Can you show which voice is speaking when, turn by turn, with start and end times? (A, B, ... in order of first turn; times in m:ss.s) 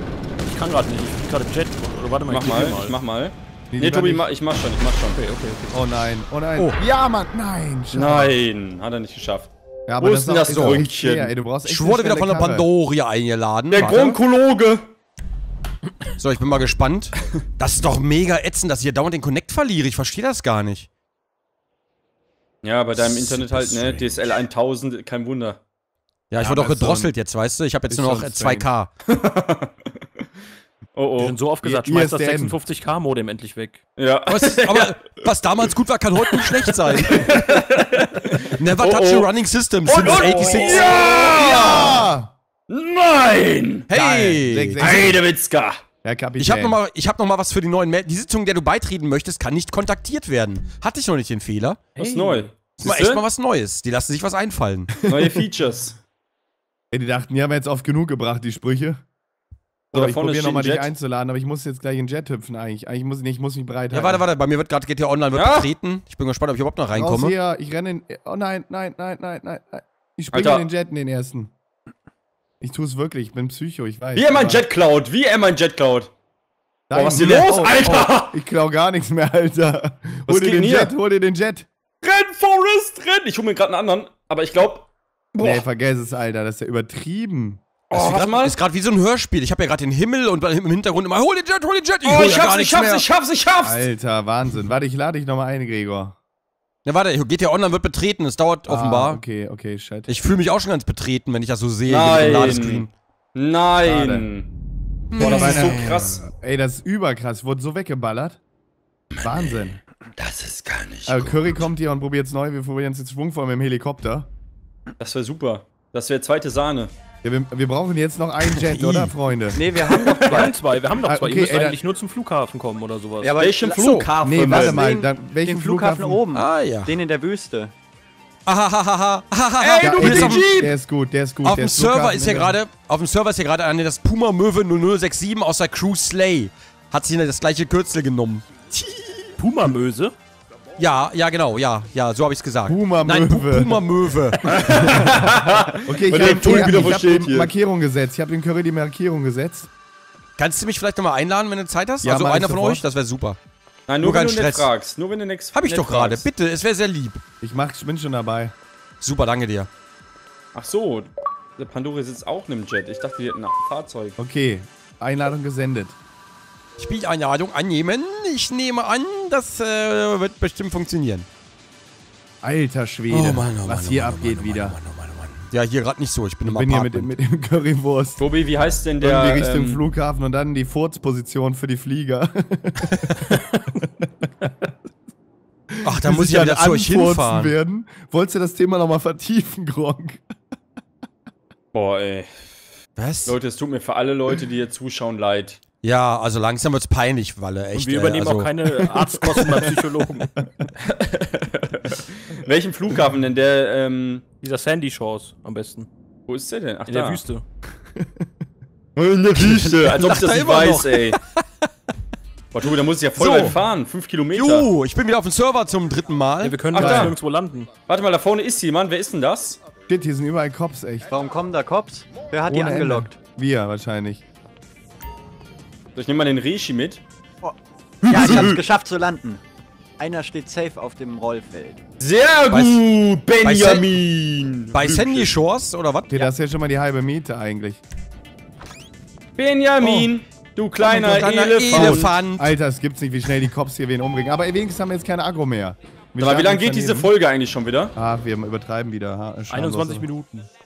0:00.4-0:03.0 A
0:02.3-0:05.2 B
0:03.7-0:04.2 C
0:05.2-0:05.7 A
0:05.7-0:08.4 C
0:07.9-0:11.3 B
0:09.9-0:12.7 C
0:10.5-0:10.8 D
0:11.6-0:14.2 D
0:13.7-0:14.9 B
0:16.1-0:20.9 D
0:22.6-0:25.6 B
0:22.9-0:24.4 D
0:26.3-0:28.9 D
0:26.4-0:27.1 C
0:27.9-0:28.7 C
0:29.1-0:29.7 B
0:30.9-0:31.4 B
0:31.2-0:33.8 A
0:31.6-0:32.6 C
0:34.0-0:35.0 B
0:34.3-0:37.4 D
0:36.6-0:39.3 B
0:38.5-0:41.0 D
0:39.8-0:42.1 B
0:40.0-0:42.3 C
0:42.7-0:43.9 B
0:43.9-0:45.1 D
0:43.9-0:45.2 C
0:44.8-0:45.8 B
0:46.0-0:46.8 C
0:46.4-0:51.9 D
0:52.0-0:53.2 B
0:52.0-0:52.5 A
0:52.8-0:54.9 D
0:55.0-0:56.0 B
0:55.1-0:55.4 C
0:56.9-0:59.0 C
0:59.9-1:04.2 C
0:59.9-1:00.9 B
1:03.9-1:07.3 D
1:05.3-1:05.7 B
1:06.9-1:11.5 C
1:10.3-1:10.7 B
1:12.6-1:14.6 C
1:14.2-1:16.1 B
1:16.9-1:21.7 C
1:16.9-1:18.4 B
1:20.3-1:20.9 B
1:22.0-1:25.6 B
1:25.4-1:27.6 C
1:27.9-1:28.5 B
1:27.9-1:33.0 D
1:32.0-1:33.8 B
1:33.6-1:36.2 C
1:36.8-1:39.2 D
1:38.7-1:40.1 C
1:40.1-1:42.9 D
1:41.9-1:44.5 B
1:43.8-1:44.3 C
1:45.1-1:45.8 D
1:45.1-1:48.4 C
1:45.2-1:46.2 B
1:49.1-1:51.6 B
1:49.2-1:49.8 C
1:51.0-1:54.3 C
1:55.0-1:56.9 B
1:57.2-1:59.6 C
1:58.4-1:59.1 D
1:59.5-2:00.6 E
1:59.9-2:00.5 B
2:00.2-2:03.3 A
2:01.0-2:01.8 C
2:03.2-2:07.7 E
2:03.4-2:04.8 B
2:03.7-2:04.1 D
2:04.2-2:06.2 C
2:06.3-2:06.9 D
2:08.4-2:10.4 D
2:09.6-2:10.7 B
2:09.8-2:12.6 C
2:11.4-2:19.3 D
2:19.4-2:20.1 A
2:20.8-2:24.8 D
2:22.7-2:23.8 C
2:24.4-2:27.5 B
2:25.8-2:29.7 C
2:30.4-2:33.4 D
2:32.0-2:32.8 C
2:33.9-2:36.2 B
2:34.0-2:34.7 D
2:35.5-2:37.2 D
2:37.4-2:38.5 C
2:39.0-2:39.7 D
2:40.5-2:44.2 B
2:44.2-2:46.0 C
2:46.8-2:51.2 D
2:52.4-2:54.8 C
2:53.1-2:57.1 D
2:56.5-2:58.2 C
2:58.2-2:59.8 B
2:59.0-3:03.4 C
3:03.3-3:03.8 A
3:04.0-3:04.2 C
3:05.7-3:10.2 C
3:05.8-3:07.5 D
3:11.7-3:12.4 B
3:13.0-3:13.4 D
3:13.2-3:15.6 B
3:15.8-3:18.5 D
3:17.7-3:20.3 A
3:18.8-3:20.7 C
3:20.9-3:24.2 B
3:24.4-3:25.9 A
3:26.3-3:27.2 B
3:26.9-3:27.4 A
3:27.9-3:28.3 C
3:29.0-3:31.2 B
3:29.4-3:31.4 D
3:32.5-3:34.7 B
3:33.2-3:33.6 D
3:34.3-3:36.6 D
3:36.4-3:37.7 A
3:36.7-3:37.1 B
3:36.8-3:37.1 C
3:37.9-3:39.6 B
3:39.9-3:41.1 C
3:41.1-3:43.2 E
3:42.4-3:44.2 C
3:46.0-3:47.0 B
3:47.4-3:49.4 E
3:48.0-3:48.6 B
3:48.1-3:48.6 D
3:50.0-3:51.8 E
3:52.0-3:55.3 B
3:52.5-3:52.8 D
3:53.4-3:53.8 D
3:54.7-3:56.3 D
3:56.1-3:57.8 C
3:59.4-4:02.1 B
3:59.8-4:00.1 D
4:00.8-4:02.5 D
4:01.7-4:07.1 C
4:06.2-4:07.9 B
4:07.9-4:10.1 C
4:09.5-4:10.5 A